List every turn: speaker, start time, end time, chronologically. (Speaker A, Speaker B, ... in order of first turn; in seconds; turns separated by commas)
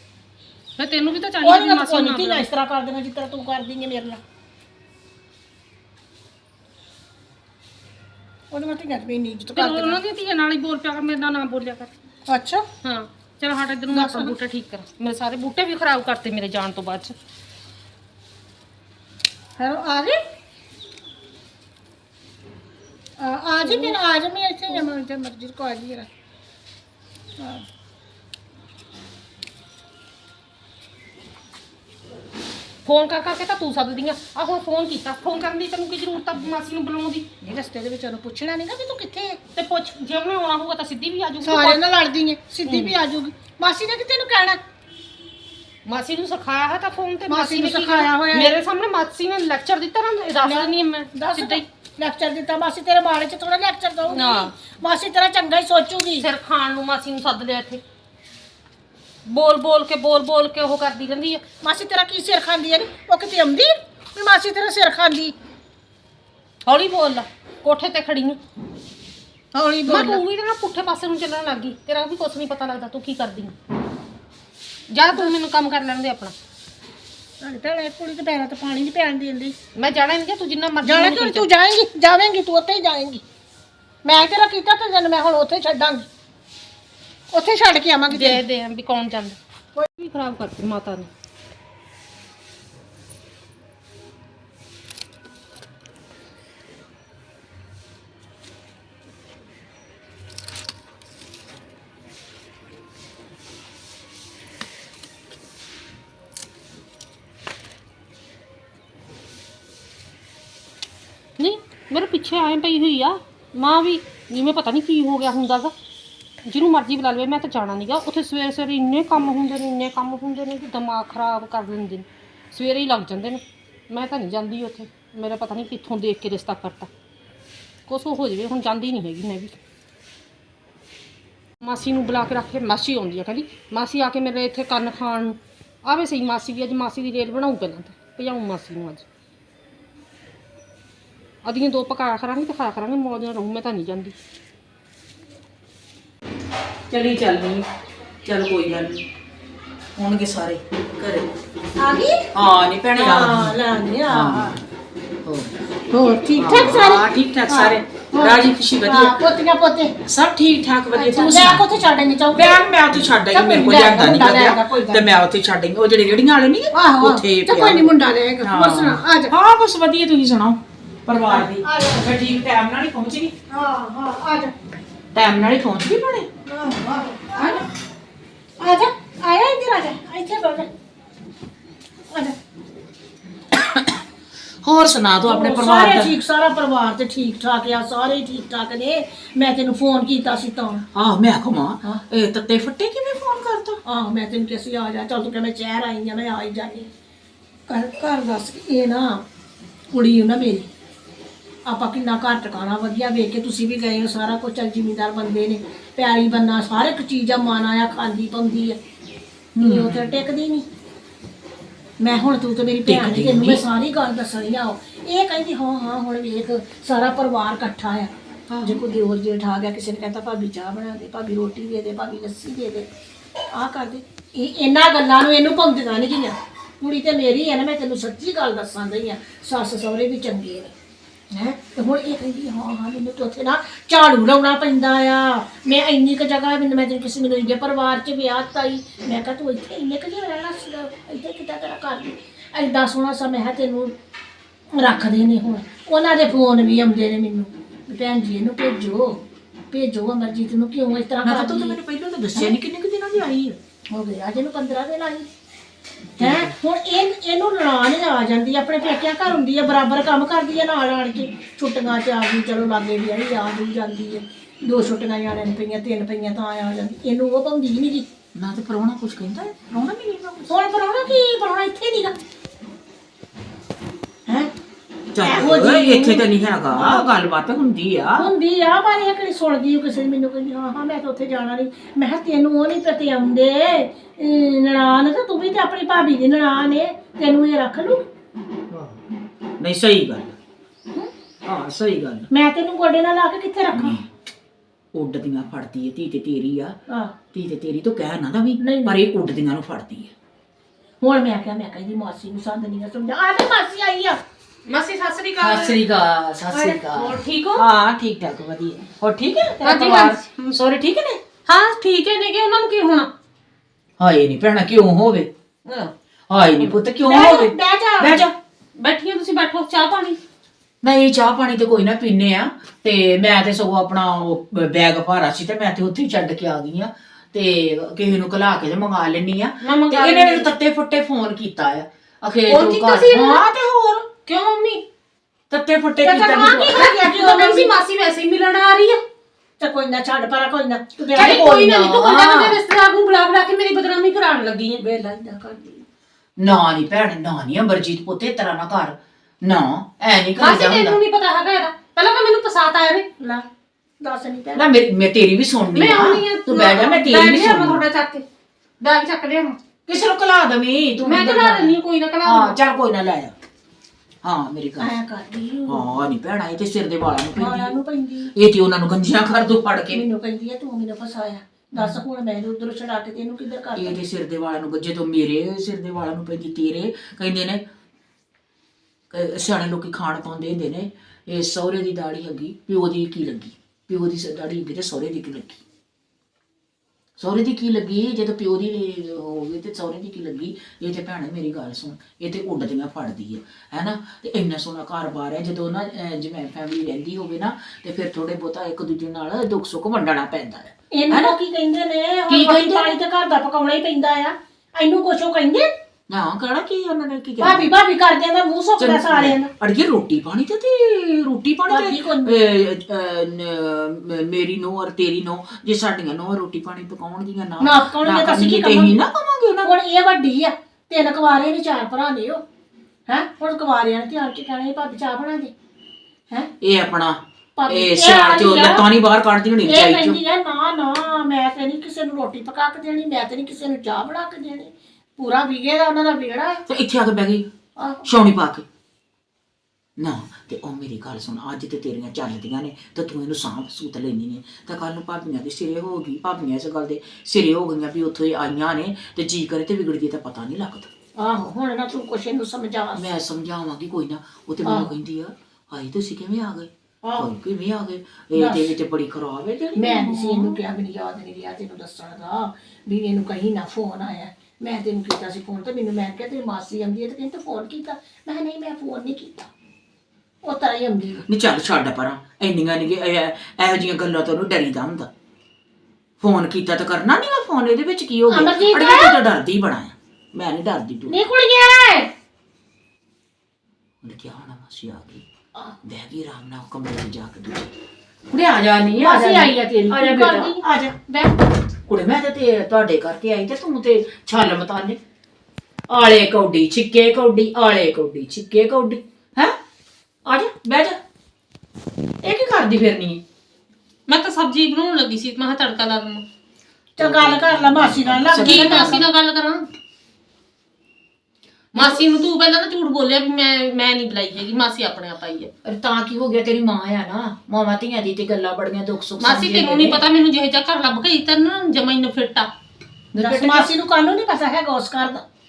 Speaker A: 0.8-2.4, Speaker B: 1.4-4.2, Speaker B: 8.5-10.0, Speaker A: 9.5-11.9, Speaker B: 12.3-12.7, Speaker A: 12.8-17.1, Speaker B: 13.9-14.3, Speaker B: 19.6-20.2, Speaker B: 23.2-26.1, Speaker A: 23.6-24.0, Speaker B: 27.4-27.6, Speaker A: 32.8-37.2, Speaker B: 37.4-39.4, Speaker A: 39.5-41.8, Speaker B: 41.4-44.6, Speaker A: 42.6-42.9, Speaker A: 45.9-51.6, Speaker B: 47.3-48.5, Speaker B: 50.4-56.3, Speaker A: 54.1-54.5, Speaker A: 56.2-57.8, Speaker A: 59.2-61.4, Speaker B: 61.6-65.3, Speaker A: 66.7-68.4, Speaker B: 69.5-70.2, Speaker A: 69.9-73.5, Speaker A: 74.9-76.3, Speaker B: 77.4-79.5, Speaker A: 79.7-81.5, Speaker B: 80.8-83.2, Speaker B: 84.0-86.1, Speaker B: 87.3-88.4, Speaker A: 88.1-89.4, Speaker A: 90.0-91.1, Speaker A: 111.4-115.7, Speaker A: 116.5-126.9, Speaker A: 127.9-129.6, Speaker A: 131.6-139.1, Speaker A: 141.4-144.2, Speaker C: 146.9-147.7, Speaker C: 148.2-149.0, Speaker C: 149.9-151.3, Speaker B: 151.8-152.2, Speaker C: 152.3-154.6, Speaker B: 152.9-154.6, Speaker C: 155.2-155.5, Speaker B: 155.9-159.9, Speaker C: 156.3-159.2, Speaker C: 160.0-161.7, Speaker B: 160.9-162.6, Speaker C: 162.3-173.3, Speaker B: 163.3-165.1, Speaker B: 166.7-169.3, Speaker B: 171.3-172.1, Speaker B: 173.5-174.5, Speaker C: 175.1-176.3, Speaker B: 176.4-177.6, Speaker B: 178.6-180.7, Speaker C: 183.5-184.0, Speaker C: 184.6-186.1, Speaker B: 185.2-190.8, Speaker C: 190.9-193.8, Speaker B: 193.8-196.9, Speaker B: 197.7-199.2, Speaker B: 199.9-200.7, Speaker B: 201.7-208.8, Speaker C: 209.6-210.2, Speaker B: 209.6-210.6, Speaker B: 212.0-218.1, Speaker C: 212.8-213.6, Speaker C: 218.5-218.8, Speaker B: 218.6-222.9, Speaker B: 223.5-230.7, Speaker B: 231.3-243.9, Speaker B: 244.7-251.8, Speaker C: 251.2-253.6, Speaker B: 253.9-255.3, Speaker C: 256.2-256.5, Speaker B: 256.2-268.1, Speaker C: 268.3-270.5, Speaker B: 270.5-272.1, Speaker C: 275.1-278.3, Speaker B: 275.2-277.1, Speaker B: 278.2-288.1, Speaker C: 288.7-289.0, Speaker C: 289.6-290.4, Speaker C: 291.4-292.3, Speaker B: 292.3-294.0, Speaker C: 293.7-294.1, Speaker C: 294.9-296.8, Speaker B: 296.9-297.1, Speaker C: 297.3-300.1, Speaker B: 298.6-299.0, Speaker B: 301.0-304.2, Speaker A: 304.7-305.8, Speaker C: 305.4-311.2, Speaker A: 306.5-307.6, Speaker A: 309.6-310.4, Speaker A: 311.4-313.1, Speaker C: 314.0-315.3, Speaker A: 315.6-315.9, Speaker C: 316.3-318.3, Speaker B: 317.1-318.2, Speaker A: 318.8-320.2, Speaker C: 320.8-334.1, Speaker A: 329.6-330.5, Speaker A: 332.5-333.4, Speaker A: 334.2-334.8, Speaker C: 335.5-336.9, Speaker B: 336.0-337.7, Speaker A: 336.2-339.0, Speaker B: 339.6-341.5, Speaker C: 341.1-342.6, Speaker A: 341.1-344.8, Speaker B: 344.8-345.8, Speaker C: 346.4-351.0, Speaker A: 350.4-353.1, Speaker B: 353.2-353.4, Speaker B: 354.0-354.7, Speaker C: 354.5-357.8, Speaker A: 355.7-358.2, Speaker A: 358.8-359.6, Speaker C: 359.9-363.3, Speaker A: 361.0-362.5, Speaker C: 364.2-364.9, Speaker B: 364.8-365.9, Speaker C: 365.7-367.7, Speaker B: 367.4-368.3, Speaker C: 368.3-370.0, Speaker B: 369.9-374.0, Speaker C: 373.8-377.6, Speaker C: 379.1-385.6, Speaker C: 387.2-401.3, Speaker B: 400.9-405.7, Speaker C: 402.3-403.0, Speaker C: 406.1-407.7, Speaker B: 407.4-409.5, Speaker C: 408.8-419.7, Speaker B: 411.7-412.4, Speaker B: 417.6-419.0, Speaker B: 419.6-422.4, Speaker B: 423.1-425.5, Speaker C: 426.6-430.2, Speaker B: 427.6-428.9, Speaker B: 429.6-436.6, Speaker C: 436.7-437.5, Speaker B: 437.8-438.1, Speaker C: 438.0-438.6, Speaker C: 440.0-450.9, Speaker B: 451.2-453.1, Speaker C: 452.9-460.6, Speaker B: 454.6-454.9, Speaker B: 457.0-457.3, Speaker B: 458.3-458.7, Speaker B: 459.7-469.5, Speaker B: 470.4-471.2, Speaker C: 471.3-475.1, Speaker C: 476.2-481.2, Speaker B: 478.3-479.2, Speaker B: 481.1-482.1, Speaker C: 484.0-485.2, Speaker C: 485.8-487.7, Speaker C: 488.3-490.6, Speaker B: 489.0-491.3, Speaker C: 491.9-495.0, Speaker C: 495.9-499.6, Speaker C: 500.2-501.0, Speaker C: 502.2-503.2, Speaker A: 504.1-506.2, Speaker B: 507.0-509.0, Speaker C: 507.0-509.1, Speaker A: 508.4-509.7, Speaker A: 511.7-515.5, Speaker C: 511.8-512.0, Speaker C: 515.6-520.0, Speaker A: 519.2-522.5, Speaker C: 523.1-523.7, Speaker B: 523.2-525.2